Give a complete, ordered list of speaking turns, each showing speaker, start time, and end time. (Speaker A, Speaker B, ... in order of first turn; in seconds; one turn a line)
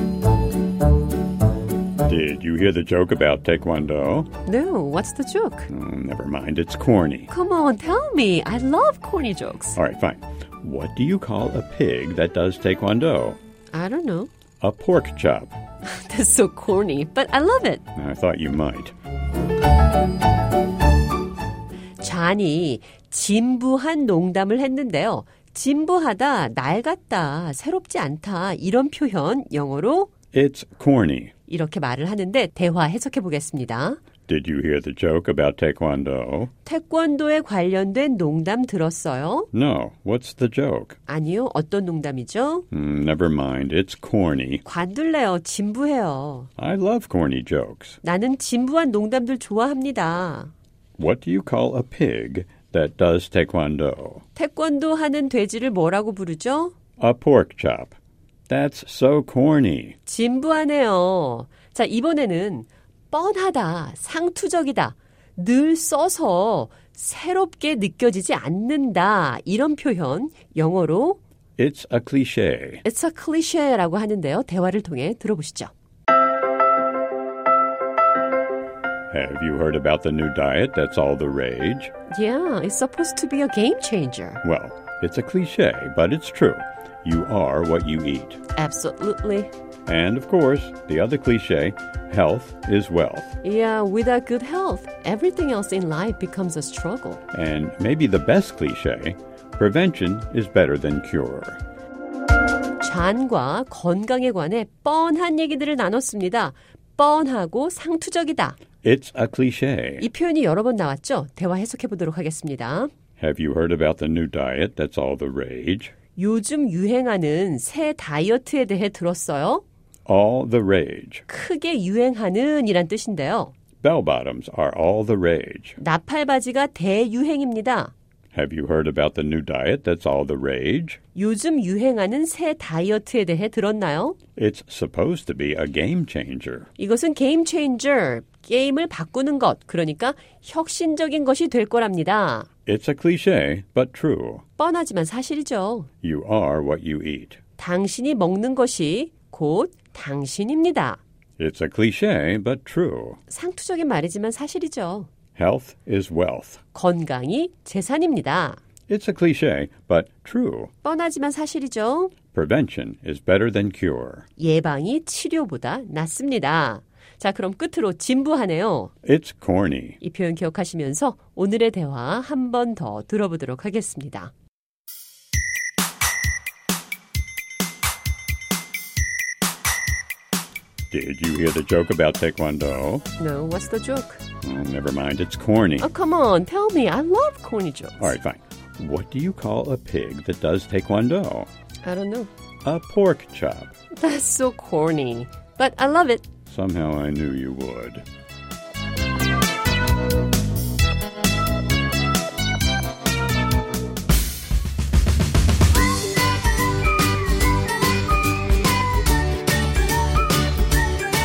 Speaker A: 2.0-4.3
Speaker B: 4.4-5.7
Speaker A: 5.7-7.3
Speaker B: 7.3-9.8
Speaker A: 9.8-13.4
Speaker B: 13.7-14.3
Speaker A: 14.6-15.6
Speaker B: 15.8-17.8
Speaker A: 17.9-18.9
Speaker B: 22.0-30.1
Speaker A: 30.3-31.3
Speaker B: 31.5-34.0
Speaker A: 34.3-36.5
Speaker B: 36.6-39.5
Speaker A: 39.5-41.0
Speaker B: 41.1-42.6
Speaker A: 42.7-44.6
Speaker B: 44.6-46.5
Speaker A: 46.6-48.0
Speaker B: 48.0-50.5
Speaker A: 51.0-54.2
Speaker B: 54.4-56.7
Speaker A: 57.0-57.9
Speaker A: 58.5-60.0
Speaker B: 60.0-71.2
Speaker A: 71.6-72.8
Speaker B: 72.8-75.7
Speaker A: 79.1-81.9
Speaker B: 82.1-84.4
Speaker A: 84.4-88.4
Speaker B: 88.5-89.5
Speaker A: 89.8-93.4
Speaker B: 93.4-97.2
Speaker A: 97.3-101.6
Speaker B: 102.8-108.6
Speaker A: 108.8-110.1
Speaker B: 110.0-112.9
Speaker A: 113.2-115.9
Speaker B: 116.2-119.6
Speaker A: 120.0-121.2
Speaker B: 121.3-123.5
Speaker A: 123.8-125.8
Speaker B: 125.8-127.9
Speaker A: 128.3-131.0
Speaker B: 131.1-134.2
Speaker A: 134.3-136.7
Speaker B: 136.8-142.5
Speaker A: 142.7-144.4
Speaker B: 144.6-145.9
Speaker A: 146.0-147.4
Speaker B: 147.6-151.0
Speaker A: 151.4-153.2
Speaker B: 153.3-155.1
Speaker A: 155.3-156.6
Speaker B: 156.7-158.6
Speaker A: 158.9-160.7
Speaker B: 160.8-162.1
Speaker A: 162.3-164.3
Speaker B: 164.4-168.9
Speaker A: 169.0-170.0
Speaker B: 170.0-174.3
Speaker A: 180.9-183.1
Speaker B: 183.2-184.2
Speaker A: 184.4-185.9
Speaker B: 185.8-188.1
Speaker A: 188.0-191.5
Speaker B: 191.8-192.3
Speaker A: 192.6-193.7
Speaker B: 193.9-196.2
Speaker A: 196.4-198.1